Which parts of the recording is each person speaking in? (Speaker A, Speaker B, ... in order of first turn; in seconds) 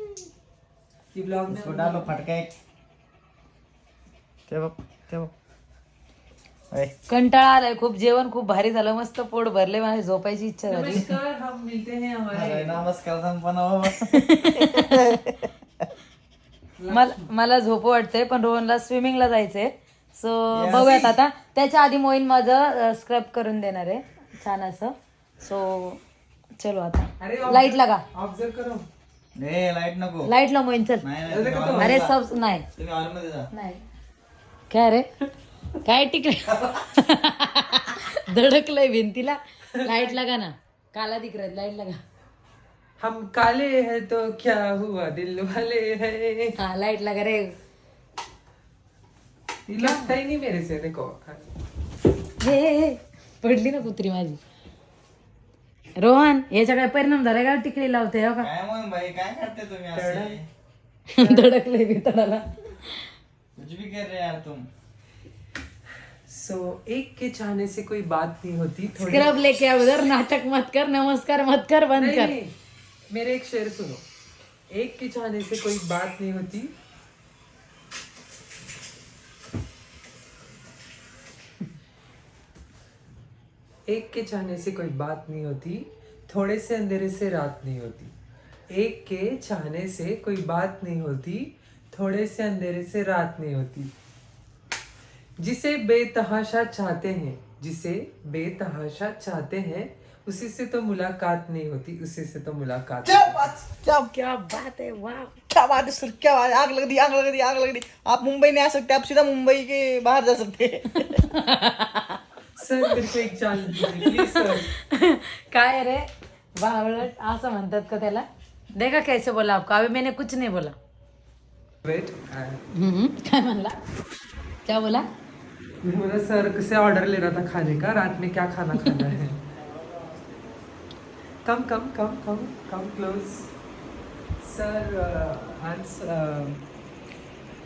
Speaker A: 1.1-2.1, 10.7-12.9, 16.8-17.3, 20.7-21.0, 27.2-28.9, 31.3-32.0, 39.7-40.2, 43.0-46.6, 49.7-51.4, 59.9-60.4, 66.3-69.3, 72.0-72.5, 73.1-74.0, 74.7-76.7, 83.9-88.1, 88.7-93.9, 95.4-103.5, 112.6-114.7, 121.8-122.6, 125.8-129.4, 131.4-133.5, 134.4-136.7
Speaker B: 1.5-2.5, 4.5-5.3, 12.3-15.4, 20.5-21.1, 29.4-30.3, 31.0-32.1, 32.8-33.5, 58.4-60.5, 63.6-64.7, 103.1-104.1, 105.5-111.2, 129.6-130.5
Speaker C: 7.1-11.1, 13.9-15.2, 16.9-26.0, 26.6-28.0, 30.2-31.1, 31.8-32.6, 33.5-33.8, 34.7-35.1, 35.9-42.0, 46.6-47.6, 49.8-50.1, 52.4-54.4, 56.0-58.5, 61.1-62.5, 69.0-72.4, 104.1-105.4, 111.0-112.2, 114.6-120.8, 122.7-123.8, 124.7-125.1